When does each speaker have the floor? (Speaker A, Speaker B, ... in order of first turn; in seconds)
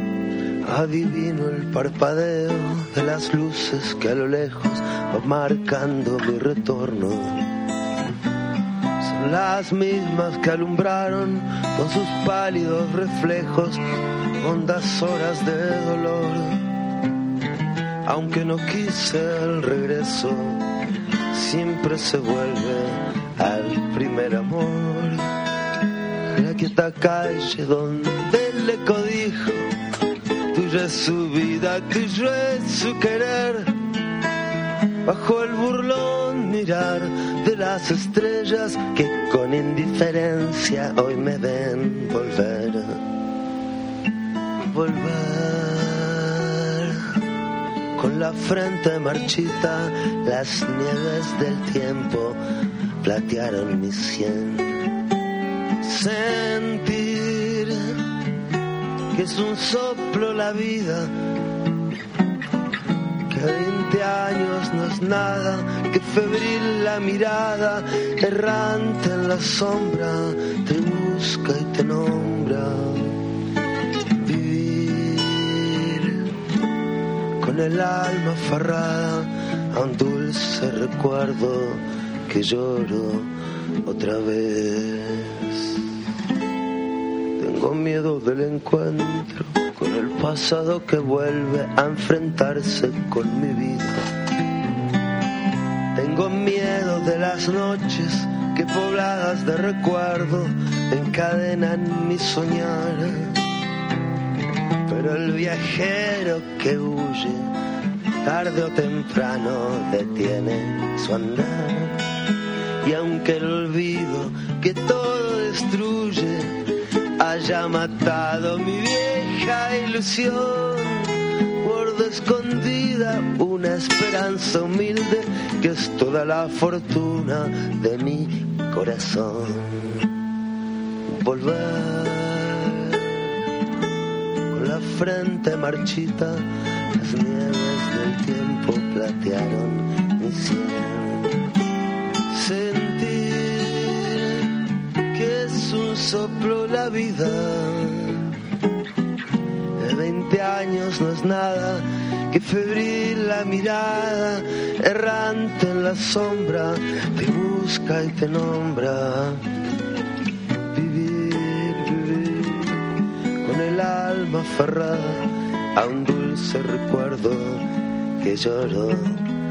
Speaker A: 0.6-7.5, 9.0-13.8, 14.4-16.6, 18.1-20.6, 21.3-25.2, 26.4-29.7, 30.5-33.7, 35.0-43.0, 44.7-47.0, 48.0-52.4, 53.0-54.8, 55.8-57.9, 59.1-61.1, 63.3-73.1, 74.2-76.2, 77.4-83.3, 83.8-85.7, 87.4-94.0, 95.9-103.3, 104.9-107.5, 108.2-112.0, 112.8-116.5, 117.2-130.1, 131.1-133.2, 134.5-141.3, 142.3-144.4, 145.1-148.2, 149.8-159.4, 160.7-162.7, 163.4-167.6, 168.2-169.2